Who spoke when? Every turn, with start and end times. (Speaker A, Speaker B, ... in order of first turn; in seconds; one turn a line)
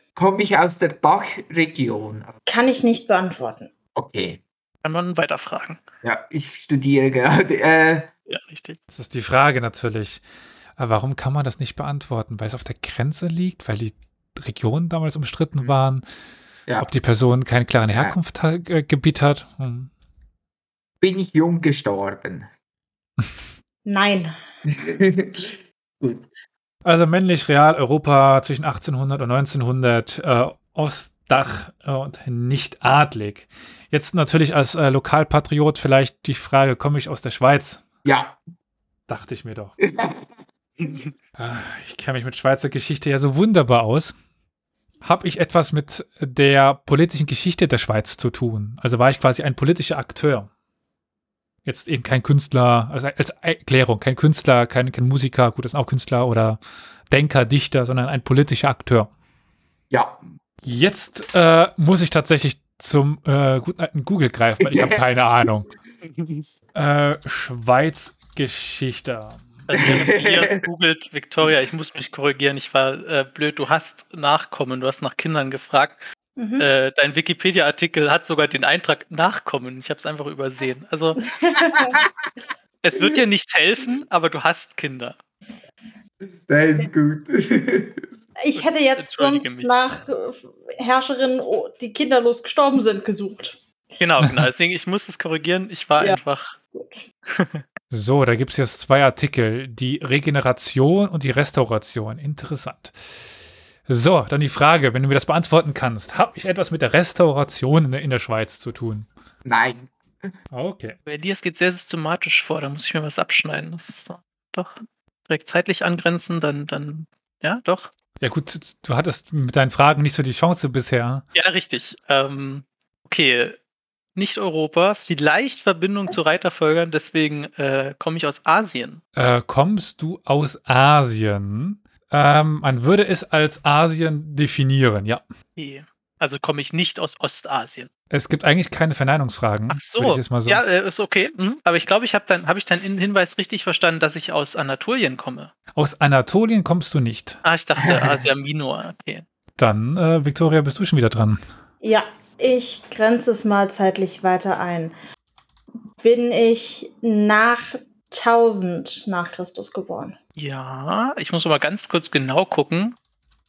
Speaker A: 0.1-2.4
Speaker B: 2.5-3.7
Speaker A: 3.9-4.4
Speaker C: 4.8-5.8
Speaker A: 6.0-8.1
Speaker C: 8.3-8.8
Speaker D: 8.9-10.2
Speaker D: 10.8-16.0
Speaker D: 16.8-19.9
Speaker A: 17.9-18.1
Speaker A: 21.0-22.5
Speaker B: 23.8-24.3
Speaker A: 24.7-26.4
Speaker D: 26.8-37.9
Speaker A: 38.0-38.4
Speaker D: 39.1-39.8
Speaker A: 39.8-40.4
Speaker C: 40.8-41.1
Speaker D: 41.4-44.1
Speaker D: 45.0-50.5
Speaker D: 51.6-56.6
Speaker D: 57.1-59.1
Speaker A: 59.9-60.2
Speaker D: 60.6-65.7
Speaker A: 64.6-65.5
Speaker C: 66.1-66.4
Speaker D: 66.7-69.5
Speaker C: 69.7-76.0
Speaker A: 69.7-70.6
Speaker B: 76.4-76.7
Speaker C: 76.6-81.2
Speaker B: 81.2-82.0
Speaker A: 81.7-82.1
Speaker C: 82.8-85.2
Speaker A: 86.5-88.1
Speaker B: 88.4-93.6
Speaker C: 88.5-89.8
Speaker C: 94.0-96.6
Speaker B: 96.7-97.0
Speaker C: 97.3-97.6
Speaker D: 97.9-102.9
Speaker D: 103.9-109.1
Speaker A: 109.4-110.3
Speaker D: 110.5-111.0
Speaker C: 111.1-114.7
Speaker C: 115.3-117.9
Speaker D: 118.2-121.2
Speaker C: 121.3-123.6
Speaker C: 124.2-129.0
Speaker D: 129.2-135.2
Speaker C: 135.6-137.9
Speaker D: 138.1-140.6
Speaker C: 139.7-145.5
Speaker D: 145.7-147.4
Speaker C: 147.4-149.2
Speaker A: 147.8-148.3
Speaker D: 149.6-151.4
Speaker B: 151.8-154.9
Speaker B: 156.0-160.2
Speaker C: 160.4-163.0